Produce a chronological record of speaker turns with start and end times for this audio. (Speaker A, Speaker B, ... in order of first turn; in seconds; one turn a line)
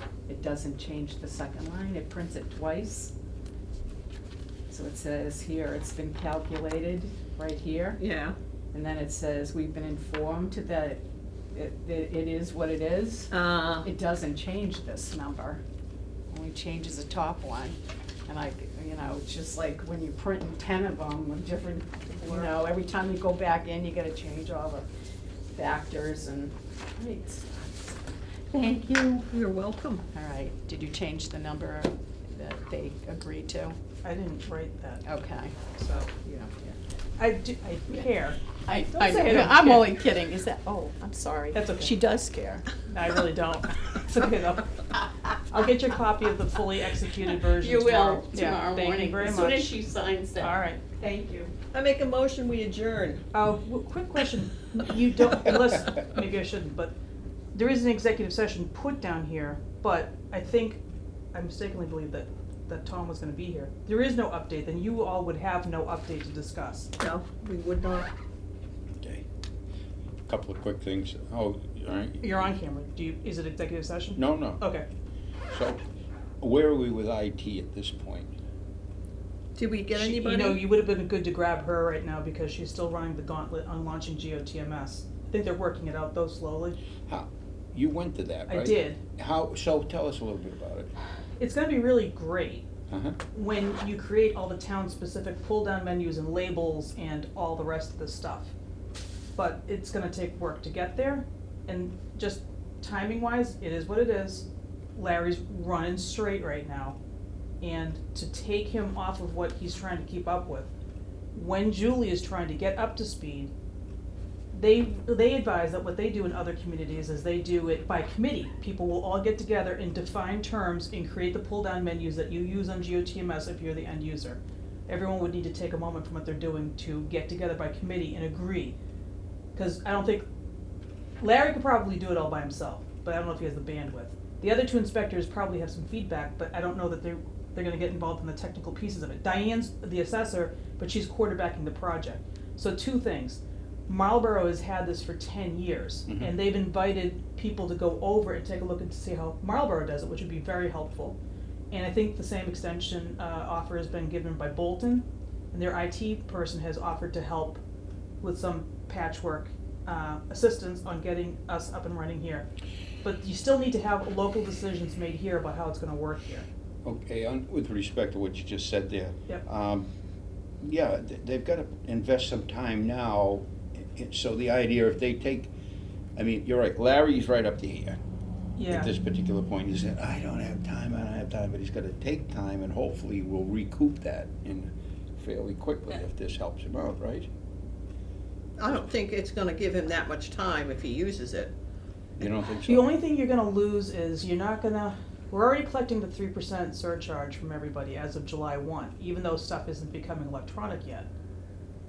Speaker A: 0.3-3.1
Speaker A: 4.7-8.0
Speaker B: 8.0-8.4
Speaker A: 8.7-11.0
Speaker A: 11.5-15.6
Speaker B: 13.3-13.9
Speaker A: 16.3-24.9
Speaker B: 22.1-22.5
Speaker A: 25.5-29.3
Speaker B: 29.3-30.0
Speaker A: 30.1-33.8
Speaker C: 34.0-35.0
Speaker A: 35.0-35.6
Speaker C: 35.7-36.1
Speaker A: 36.2-36.8
Speaker C: 37.2-39.9
Speaker A: 38.6-42.7
Speaker C: 41.5-42.0
Speaker C: 42.9-44.8
Speaker C: 45.5-49.8
Speaker A: 47.5-51.5
Speaker C: 50.4-50.8
Speaker B: 51.7-53.2
Speaker C: 53.3-57.0
Speaker C: 57.5-60.8
Speaker C: 61.3-66.9
Speaker B: 67.0-68.1
Speaker D: 70.3-72.3
Speaker C: 72.2-74.9
Speaker D: 74.2-74.6
Speaker D: 75.5-75.8
Speaker D: 76.4-78.3
Speaker B: 79.6-80.7
Speaker C: 80.0-86.8
Speaker D: 87.1-90.9
Speaker C: 88.5-89.0
Speaker C: 91.4-92.7
Speaker D: 92.9-93.2
Speaker C: 93.3-98.5
Speaker C: 99.4-107.0
Speaker C: 107.6-110.7
Speaker C: 111.3-113.5
Speaker C: 114.5-128.8
Speaker C: 129.6-130.2
Speaker C: 131.2-151.2
Speaker D: 146.1-146.3
Speaker C: 151.7-157.6
Speaker C: 158.2-162.5
Speaker C: 163.0-166.5
Speaker D: 166.8-169.9
Speaker D: 170.6-175.5
Speaker D: 176.2-178.0
Speaker C: 178.6-178.9
Speaker D: 178.7-187.3
Speaker B: 188.6-191.5
Speaker D: 192.2-192.9
Speaker C: 192.2-201.1